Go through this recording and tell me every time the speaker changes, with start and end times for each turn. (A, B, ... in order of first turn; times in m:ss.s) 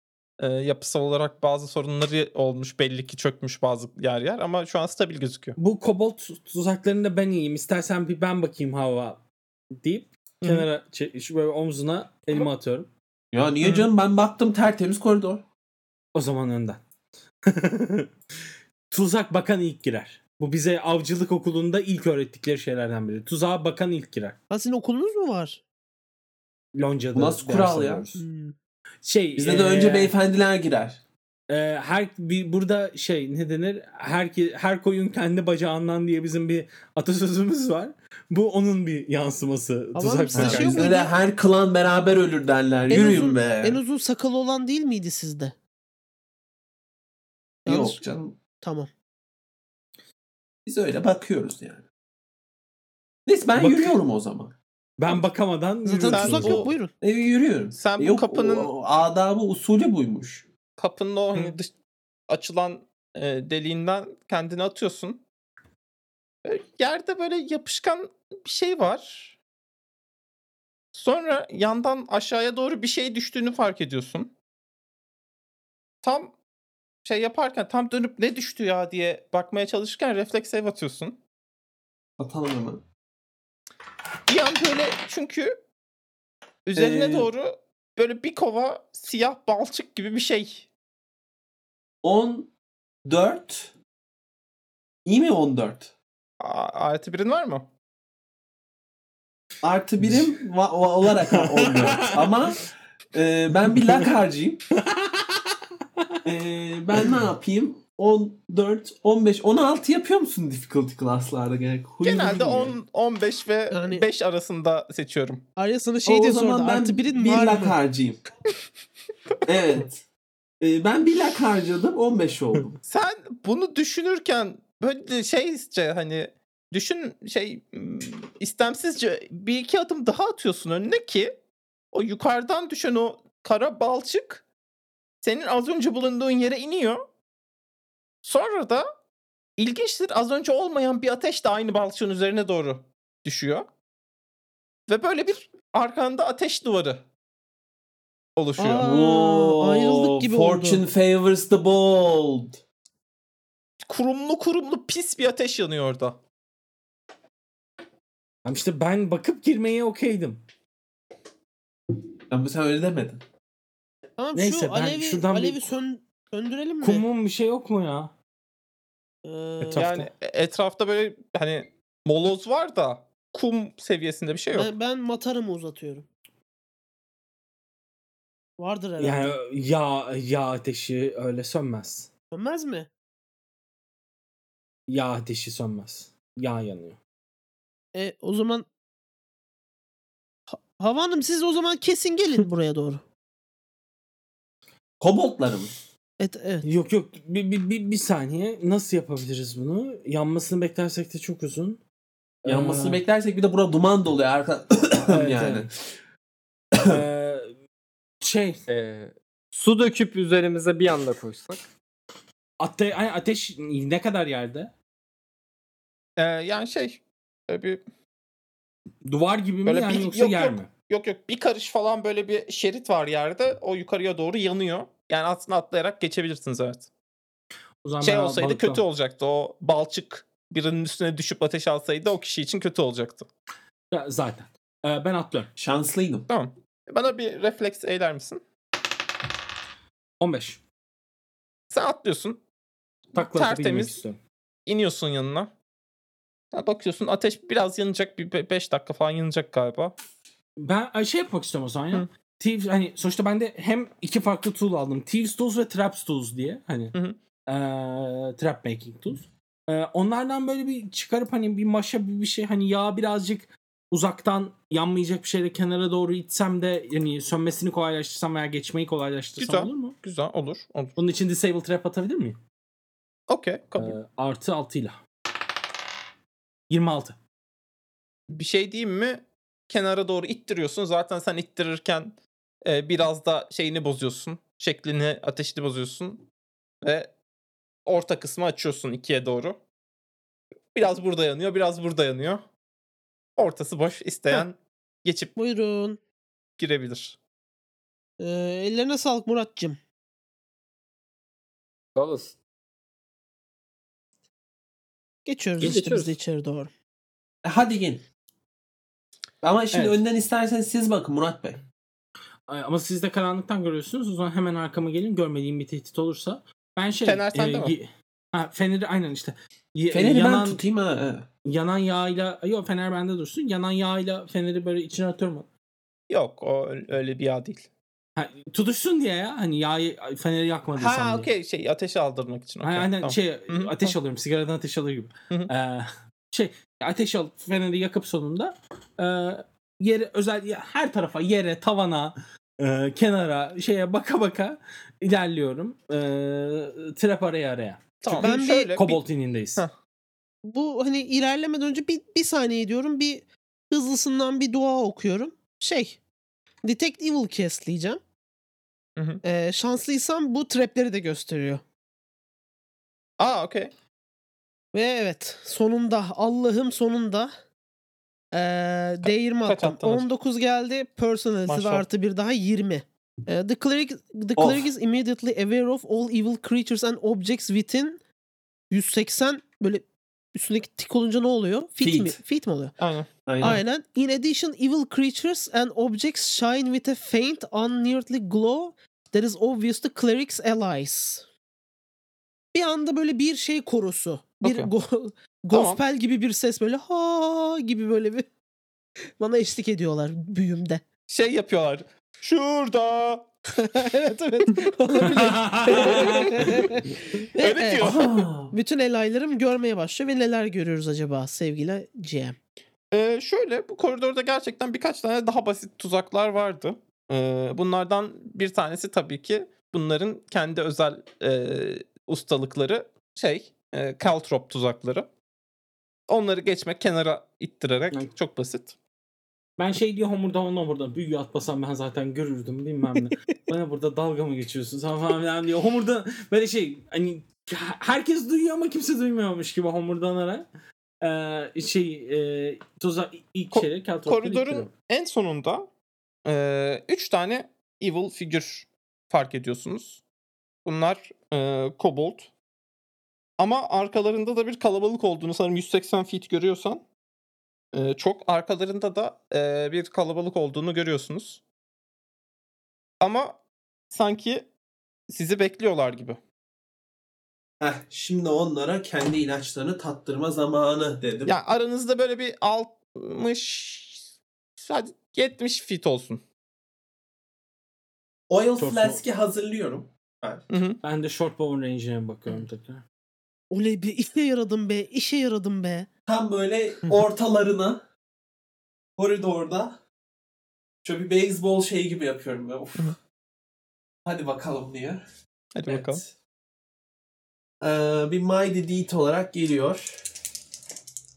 0:00.4-0:05.6 A
0:05.6-0:09.2 B
0:09.8-0:12.9 B
0:10.4-0:10.7 A
0:13.3-0:15.4 C
0:13.6-0:13.9 A
0:16.2-0:16.8 B
0:17.5-0:18.1 B
0:18.9-0:24.4 B
0:24.5-0:25.6 D
0:26.8-0:28.2 B
0:27.1-0:28.2 C
0:28.2-0:28.6 D
0:29.0-0:30.1 B
0:29.4-0:31.0 C
0:31.5-0:40.9 B
0:39.9-0:41.1 D
0:40.3-0:43.8 C
0:42.9-0:45.6 D
0:42.9-0:43.2 B
0:47.7-0:48.0 D
0:47.7-0:48.4 C
0:48.6-0:48.9 D
0:50.7-0:51.8 C
0:53.3-0:54.6 C
0:53.6-0:54.0 B
0:55.0-0:56.7 B
0:55.8-0:56.9 D
0:56.1-0:56.7 A
0:57.0-1:00.5 C
0:57.8-0:58.7 A
1:00.8-1:01.7 A
1:02.3-1:05.2 A
1:06.4-1:09.4 A
1:10.9-1:14.3 A
1:16.0-1:16.3 A
1:17.0-1:21.2 A
1:22.2-1:22.8 C
1:24.3-1:25.6 A
1:26.7-1:30.7 A
1:26.8-1:27.3 C
1:32.0-1:32.5 C
1:33.1-1:33.7 C
1:35.0-1:35.9 C
1:36.4-1:37.7 A
1:39.6-1:44.7 C
1:40.0-1:40.3 B
1:41.2-1:42.3 B
1:44.9-1:45.2 B
1:46.2-1:52.8 C
1:52.0-1:55.5 A
1:53.7-1:54.0 D
1:55.6-1:57.8 D
1:56.0-1:58.2 C
1:59.5-2:00.1 C
2:00.6-2:02.8 C
2:02.8-2:11.4 A
2:11.9-2:14.4 A
2:15.2-2:17.0 A
2:18.2-2:18.9 A
2:19.6-2:23.7 A
2:24.9-2:27.1 A
2:28.4-2:28.9 A
2:28.6-2:30.8 D
2:28.8-2:32.6 C
2:33.8-2:36.2 A
2:38.4-2:40.4 B
2:42.3-2:43.2 C
2:44.2-2:47.0 D
2:44.4-2:45.7 B
2:46.8-2:48.1 B
2:49.2-2:50.0 D
2:49.6-2:50.1 B
2:49.8-2:54.7 A
2:54.5-2:56.1 D
2:58.6-2:59.4 D
2:59.0-3:02.1 B
3:02.3-3:02.9 D
3:04.9-3:07.0 B
3:08.0-3:08.7 D
3:10.5-3:13.0 D
3:15.0-3:15.8 C
3:16.2-3:16.6 D
3:16.6-3:21.8 B
3:22.4-3:23.0 B
3:22.4-3:25.8 C
3:25.1-3:25.7 B
3:26.7-3:27.0 C
3:26.8-3:27.6 B
3:28.2-3:28.6 B
3:28.7-3:31.6 E
3:32.6-3:34.7 B
3:36.2-3:37.8 A
3:39.0-3:40.7 B
3:39.7-3:46.9 A
3:47.8-3:48.8 B
3:48.0-3:53.3 A
3:53.9-3:55.5 B
3:55.6-3:56.3 C
3:56.3-3:58.4 A
4:00.2-4:00.6 B
4:01.7-4:02.4 A
4:03.1-4:04.2 B
4:03.2-4:04.0 A
4:04.7-4:05.5 A
4:06.5-4:10.0 A
4:10.6-4:17.0 B
4:16.9-4:17.2 A
4:17.5-4:30.0 B
4:29.4-4:31.0 A
4:31.0-4:32.4 B
4:33.3-4:34.0 A
4:33.8-4:35.0 B
4:36.7-4:37.2 B
4:38.3-4:46.2 A
4:46.8-4:47.1 A
4:47.9-4:49.6 A
4:50.8-4:52.4 A
4:53.4-4:55.3 A
4:55.4-4:56.0 D
4:56.6-4:57.2 A
4:58.2-4:59.8 D
5:02.0-5:02.4 E
5:05.2-5:06.7 D
5:05.6-5:06.1 E
5:07.4-5:08.0 C
5:09.4-5:11.6 C
5:12.5-5:20.6 B
5:17.0-5:17.8 A
5:19.9-5:21.3 C
5:21.5-5:25.5 B
5:26.1-5:27.7 A
5:28.2-5:31.3 B
5:30.8-5:34.0 A
5:32.6-5:49.6 B
5:48.0-5:49.0 A
5:48.2-5:48.8 D
5:50.4-5:56.0 D
5:56.6-5:58.0 D
5:59.0-5:59.2 A
5:59.2-6:01.6 D
6:03.2-6:03.7 A
6:04.7-6:07.3 D
6:08.3-6:18.0 D
6:09.0-6:10.1 A
6:11.5-6:11.9 A
6:14.4-6:14.7 C
6:18.7-6:22.8 D
6:21.8-6:22.2 C
6:22.8-6:23.1 A
6:23.3-6:23.6 C
6:23.4-6:31.3 D
6:32.5-6:38.3 D
6:34.4-6:34.7 A
6:35.5-6:35.8 A
6:39.2-6:40.8 D
6:41.1-6:43.3 A
6:43.6-6:47.9 D
6:45.2-6:46.3 B
6:45.7-6:46.6 A
6:47.4-6:48.2 A
6:47.8-6:48.6 C
6:48.5-6:52.4 D
6:52.9-7:05.1 A
7:06.1-7:08.8 A
7:09.6-7:20.5 B
7:21.0-7:24.7 B
7:23.5-7:25.7 A
7:26.3-7:30.0 A
7:30.6-7:32.3 A
7:33.4-7:36.8 A
7:37.7-7:41.4 A
7:43.0-7:44.5 A
7:45.1-7:46.2 A
7:47.6-7:51.4 C
7:51.3-7:56.2 A
7:58.3-8:00.5 C
7:58.6-7:59.0 B
8:00.5-8:00.8 A
8:00.8-8:02.8 B
8:03.5-8:05.9 D
8:06.1-8:07.8 C
8:09.0-8:09.8 C
8:10.8-8:13.0 C
8:14.0-8:15.0 C
8:15.6-8:16.0 A
8:15.7-8:16.2 C
8:17.6-8:20.0 C